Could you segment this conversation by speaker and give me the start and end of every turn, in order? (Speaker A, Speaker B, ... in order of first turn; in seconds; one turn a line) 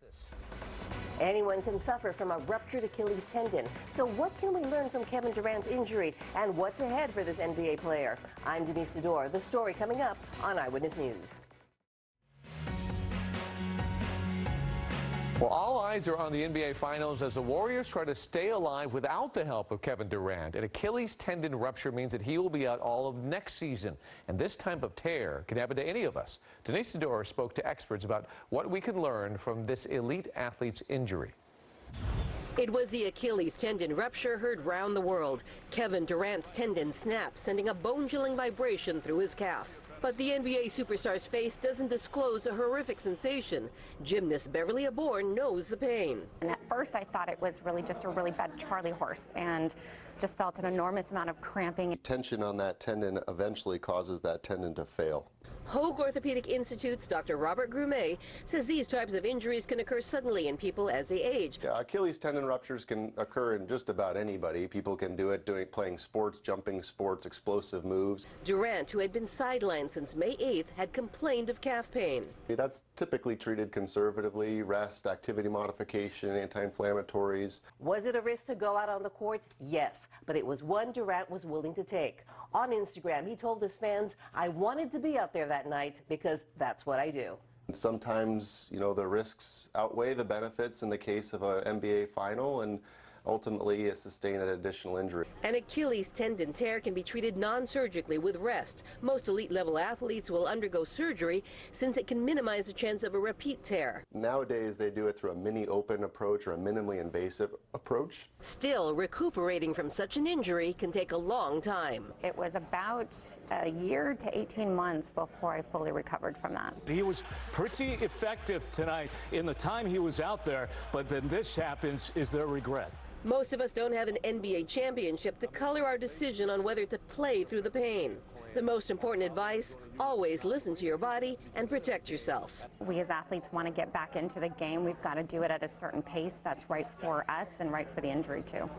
Speaker A: 1.2-11.4
Speaker B: 15.4-31.3
Speaker A: 32.6-46.3
Speaker C: 46.4-52.0
Speaker D: 52.0-55.3
Speaker A: 55.7-61.6
Speaker D: 61.6-68.2
Speaker A: 68.4-72.3
Speaker D: 72.5-77.6
Speaker A: 77.8-87.4
Speaker D: 87.7-95.2
Speaker A: 95.4-104.0
Speaker D: 104.1-108.3
Speaker A: 108.4-112.1
Speaker C: 112.2-116.8
Speaker E: 116.9-123.0
Speaker A: 123.2-132.6
Speaker C: 132.8-138.7